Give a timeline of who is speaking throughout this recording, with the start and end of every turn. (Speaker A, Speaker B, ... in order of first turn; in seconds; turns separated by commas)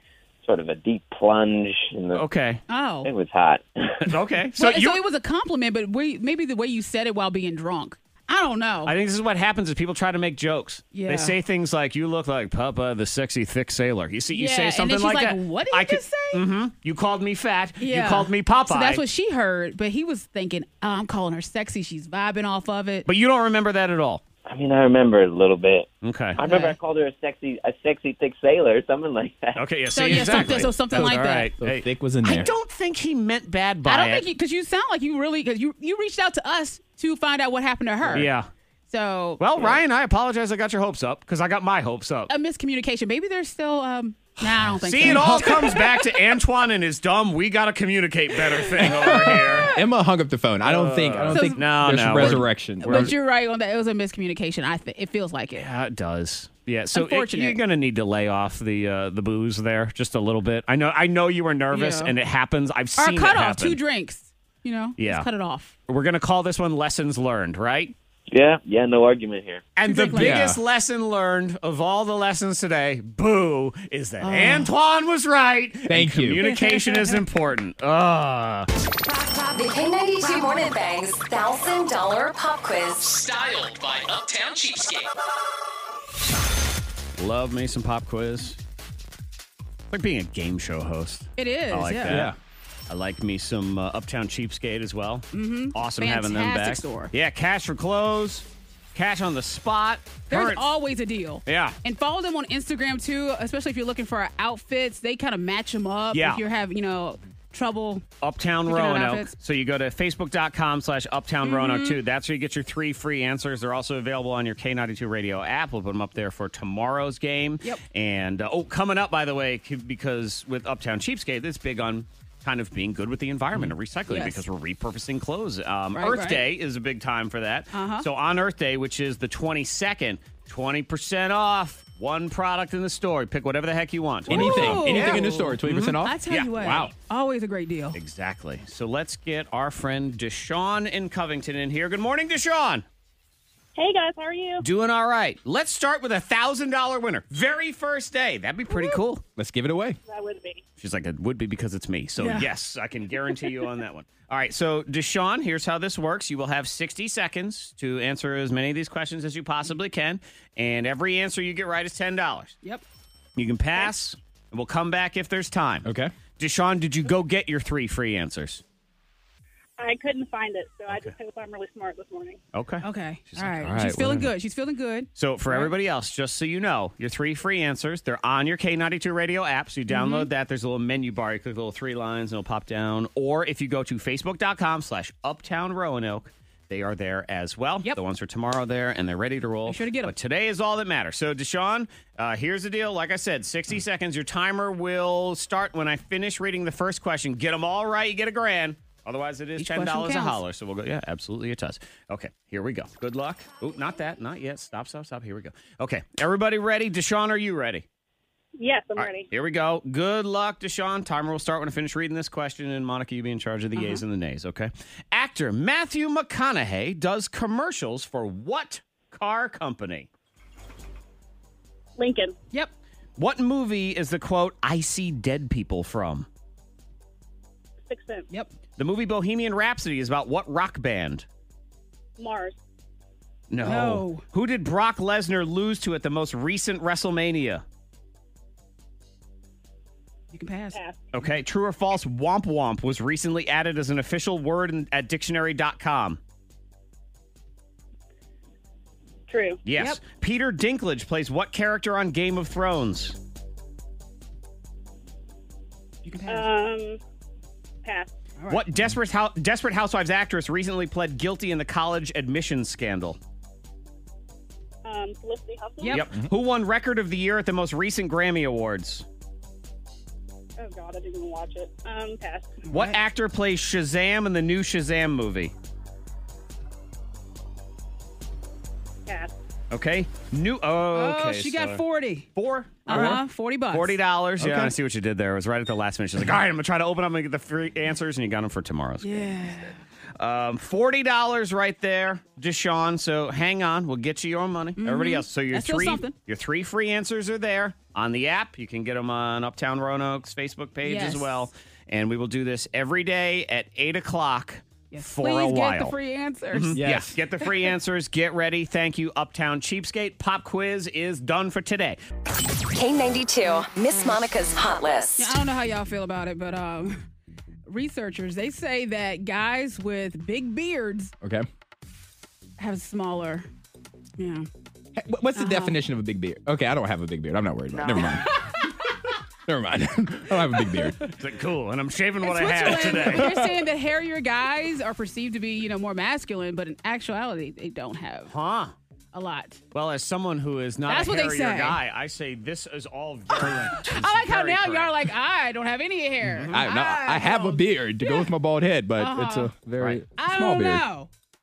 Speaker A: 0.4-2.2, Speaker B: 2.1-2.6, Speaker C: 2.7-3.1, Speaker A: 3.0-4.1, Speaker B: 4.0-5.0, Speaker C: 4.6-8.9, Speaker B: 8.8-19.0, Speaker C: 10.9-11.3, Speaker C: 14.3-16.4, Speaker C: 17.8-23.1, Speaker B: 23.1-24.2, Speaker A: 24.5-29.6, Speaker B: 26.0-26.4, Speaker C: 26.4-26.8, Speaker B: 29.6-34.3, Speaker C: 29.9-31.5, Speaker D: 30.7-32.5, Speaker C: 33.9-38.3, Speaker B: 38.1-38.5, Speaker C: 38.9-39.5, Speaker B: 39.4-42.3, Speaker C: 42.3-46.1, Speaker B: 44.4-49.7, Speaker D: 45.0-45.6, Speaker D: 48.8-53.1, Speaker B: 50.6-53.1, Speaker C: 51.3-55.6, Speaker B: 55.6-63.8, Speaker C: 56.9-57.6, Speaker C: 61.7-62.1, Speaker C: 63.0-65.7, Speaker B: 65.0-65.3, Speaker B: 65.9-67.9, Speaker A: 68.3-69.7, Speaker B: 69.8-78.7, Speaker C: 69.8-70.4, Speaker D: 70.1-70.6, Speaker C: 74.2-74.7, Speaker D: 75.9-76.4, Speaker C: 76.4-77.2, Speaker E: 79.4-83.3, Speaker B: 84.2-84.6, Speaker B: 87.2-88.6, Speaker B: 89.9-92.3, Speaker C: 91.4-92.3, Speaker D: 92.1-92.4, Speaker B: 92.9-100.7, Speaker C: 95.3-97.1, Speaker C: 100.3-108.0, Speaker B: 101.5-101.8, Speaker B: 106.1-106.4, Speaker B: 108.2-136.5, Speaker C: 108.7-109.3, Speaker C: 111.4-112.0, Speaker C: 124.1-124.4, Speaker C: 126.0-126.5, Speaker C: 127.7-128.1, Speaker D: 134.3-136.9, Speaker C: 134.3-138.0, Speaker B: 137.9-142.8, Speaker F: 143.8-144.6, Speaker B: 144.6-149.2, Speaker D: 149.4-150.0, Speaker F: 150.1-150.6, Speaker B: 150.8-162.6, Speaker C: 152.2-152.5, Speaker B: 163.4-168.6, Speaker D: 165.8-166.1, Speaker F: 169.8-172.4, Speaker B: 172.5-174.3, Speaker C: 172.8-175.7, Speaker D: 173.9-174.1, Speaker B: 175.2-207.9, Speaker C: 179.9-180.3, Speaker C: 189.7-190.1, Speaker C: 199.6-200.4, Speaker F: 208.6-209.3, Speaker B: 209.0-220.1, Speaker C: 213.8-214.0, Speaker F: 222.0-222.4, Speaker B: 223.2-226.3, Speaker F: 227.9-228.3, Speaker B: 228.8-231.3, Speaker F: 232.2-232.6, Speaker B: 233.5-237.6, Speaker C: 233.6-234.2, Speaker C: 240.3-240.8, Speaker F: 240.7-241.1, Speaker B: 241.1-246.2, Speaker F: 249.3-249.6, Speaker B: 249.7-253.2, Speaker C: 249.8-250.0, Speaker C: 256.1-256.5, Speaker F: 256.3-257.0, Speaker F: 257.8-258.1, Speaker C: 258.4-258.7, Speaker B: 258.5-263.2, Speaker F: 264.8-266.1, Speaker C: 265.8-266.1, Speaker B: 265.9-269.1, Speaker F: 270.6-272.6, Speaker C: 272.7-273.0, Speaker B: 272.7-275.5, Speaker F: 279.1-279.3, Speaker B: 279.7-305.9, Speaker C: 280.9-282.3, Speaker C: 282.9-284.0, Speaker D: 282.9-283.2, Speaker D: 284.4-284.7, Speaker C: 289.0-289.8, Speaker C: 294.8-296.1, Speaker C: 300.8-301.5, Speaker C: 304.9-306.8, Speaker B: 306.5-312.0, Speaker D: 306.7-307.2, Speaker E: 312.7-315.4, Speaker C: 315.2-317.0, Speaker C: 317.7-321.1, Speaker C: 322.6-323.5, Speaker C: 324.2-324.5, Speaker D: 325.0-328.4, Speaker C: 325.4-325.8, Speaker C: 327.8-328.6, Speaker D: 329.5-331.0, Speaker C: 330.6-330.9, Speaker B: 331.1-333.3, Speaker C: 332.2-338.3, Speaker D: 332.8-333.5, Speaker B: 338.3-338.7, Speaker C: 339.1-339.6, Speaker B: 339.7-344.9, Speaker C: 340.9-341.8, Speaker C: 343.5-348.3, Speaker B: 346.2-346.6, Speaker D: 346.5-350.9, Speaker C: 349.0-349.5, Speaker B: 349.8-350.0, Speaker C: 350.2-351.1